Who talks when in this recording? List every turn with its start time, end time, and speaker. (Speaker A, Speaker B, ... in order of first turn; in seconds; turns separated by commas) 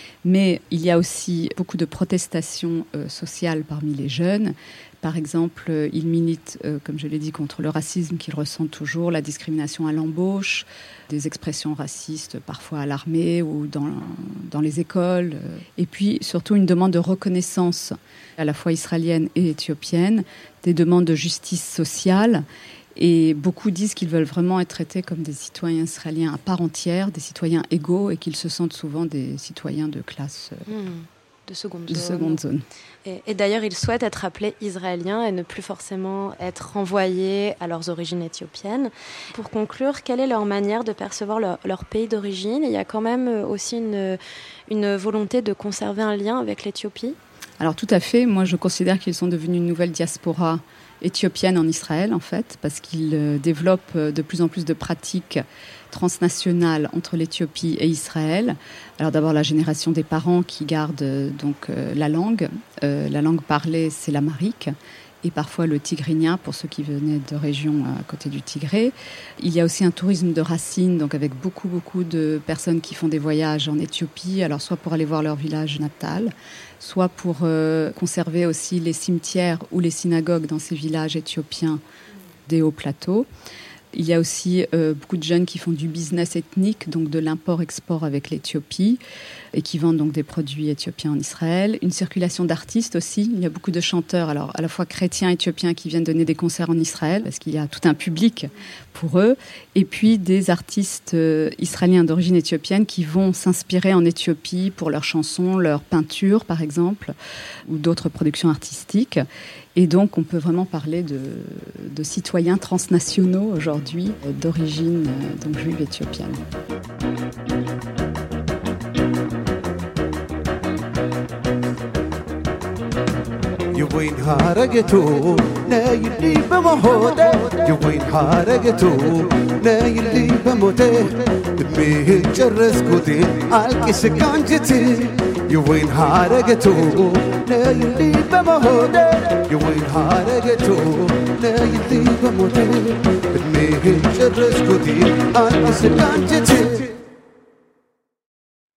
Speaker A: 0.2-22.4, Speaker A: 22.9-30.6, Speaker B: 30.7-32.4, Speaker A: 31.9-32.6, Speaker B: 33.0-47.2, Speaker A: 47.6-81.8, Speaker A: 82.5-83.3, Speaker A: 83.9-89.0, Speaker A: 89.5-107.1, Speaker A: 107.6-109.2, Speaker A: 109.7-116.4, Speaker C: 123.7-146.9